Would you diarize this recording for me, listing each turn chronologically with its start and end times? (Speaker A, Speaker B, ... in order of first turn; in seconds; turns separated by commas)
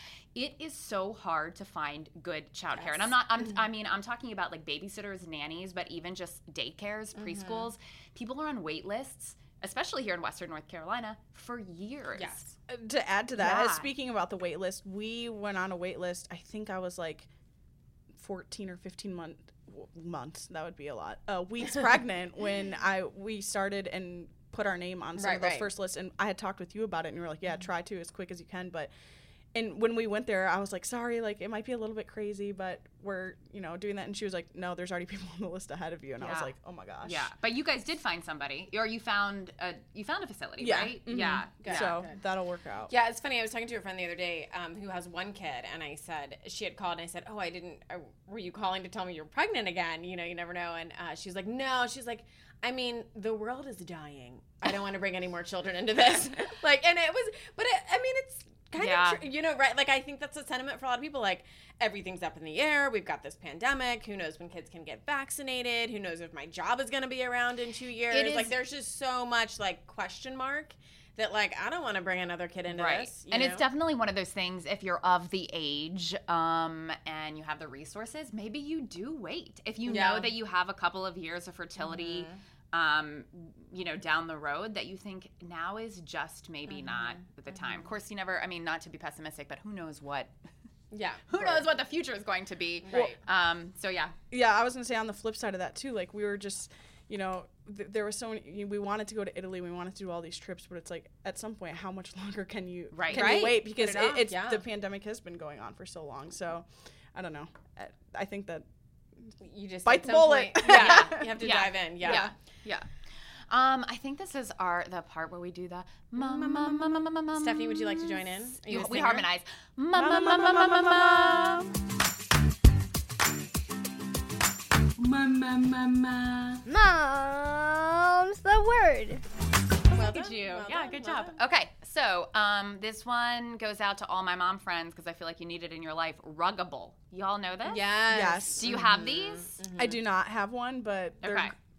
Speaker A: 0.3-12.5, Speaker B: 2.8-3.4, Speaker B: 7.2-7.7, Speaker B: 12.2-12.5, Speaker C: 12.7-17.3, Speaker A: 13.4-13.9, Speaker C: 18.1-28.9, Speaker B: 25.2-25.7, Speaker C: 29.5-37.3, Speaker A: 36.2-36.5, Speaker A: 37.0-41.9, Speaker C: 40.6-42.9, Speaker B: 41.6-42.2, Speaker B: 42.9-73.6, Speaker A: 58.8-59.2, Speaker A: 68.1-68.5, Speaker A: 72.7-90.3, Speaker B: 79.8-80.3, Speaker B: 81.8-82.4, Speaker B: 86.7-87.9, Speaker B: 90.9-91.7, Speaker A: 91.3-94.1, Speaker B: 92.8-93.2, Speaker C: 94.3-108.7, Speaker A: 102.9-103.5, Speaker B: 103.1-104.6, Speaker B: 109.4-112.3, Speaker C: 109.8-111.3, Speaker A: 110.6-112.8, Speaker C: 112.0-112.3, Speaker A: 113.5-121.6, Speaker B: 116.2-119.2, Speaker C: 120.0-121.7, Speaker D: 126.7-129.2, Speaker B: 129.9-131.4, Speaker A: 129.9-137.8, Speaker B: 137.7-140.0, Speaker C: 138.1-138.7, Speaker A: 138.6-139.6, Speaker C: 139.8-141.5, Speaker A: 141.2-141.5